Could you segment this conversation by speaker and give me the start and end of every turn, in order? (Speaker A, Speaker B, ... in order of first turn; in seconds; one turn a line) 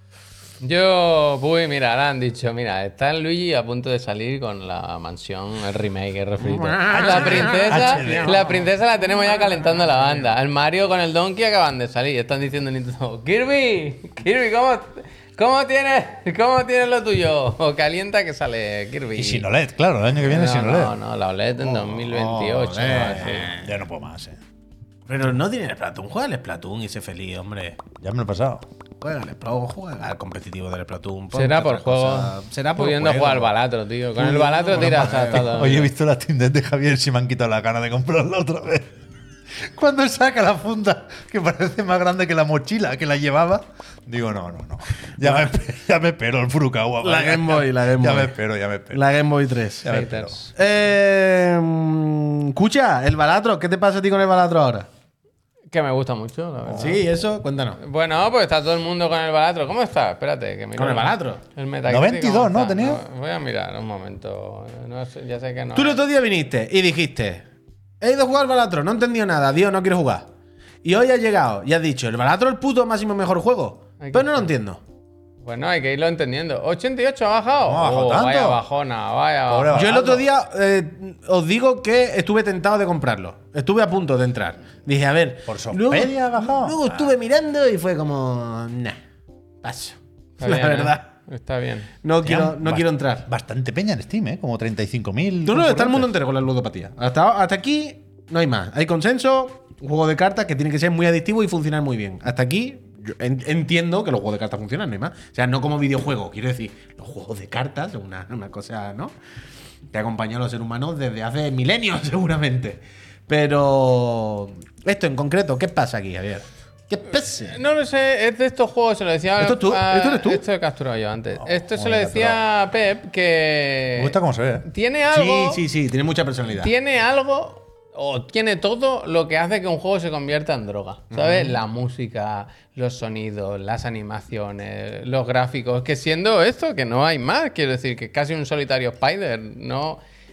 Speaker A: 0.6-19.4
Speaker B: 6.4-8.7
Speaker C: 6.9-8.4
Speaker C: 19.1-20.9
Speaker A: 20.2-23.5
Speaker C: 21.7-24.4
Speaker B: 22.4-23.8
Speaker B: 25.1-27.8
Speaker C: 28.0-28.6
Speaker B: 29.0-33.5
Speaker A: 31.3-35.9
Speaker B: 34.2-35.8
Speaker C: 34.8-38.9
Speaker C: 39.5-49.0
Speaker B: 47.0-48.3
Speaker B: 48.9-50.0
Speaker C: 49.8-50.4
Speaker A: 49.9-50.5
Speaker B: 50.5-54.9
Speaker A: 55.7-57.0
Speaker C: 56.6-57.0
Speaker B: 56.7-57.8
Speaker A: 57.8-66.0
Speaker B: 60.8-61.4
Speaker C: 61.9-63.0
Speaker B: 65.7-67.4
Speaker B: 68.0-70.3
Speaker B: 70.8-74.8
Speaker A: 74.0-74.5
Speaker A: 75.4-80.2
Speaker C: 77.6-78.6
Speaker C: 79.5-80.2
Speaker B: 79.7-89.0
Speaker C: 85.5-87.1
Speaker B: 89.6-91.1
Speaker A: 90.4-91.9
Speaker B: 92.0-93.2
Speaker C: 92.2-96.1
Speaker B: 95.5-109.1
Speaker B: 109.9-117.6
Speaker A: 117.3-125.6
Speaker B: 119.4-120.4
Speaker C: 121.4-122.4
Speaker C: 124.0-124.7
Speaker B: 125.1-126.7
Speaker A: 126.6-140.0
Speaker B: 131.1-131.6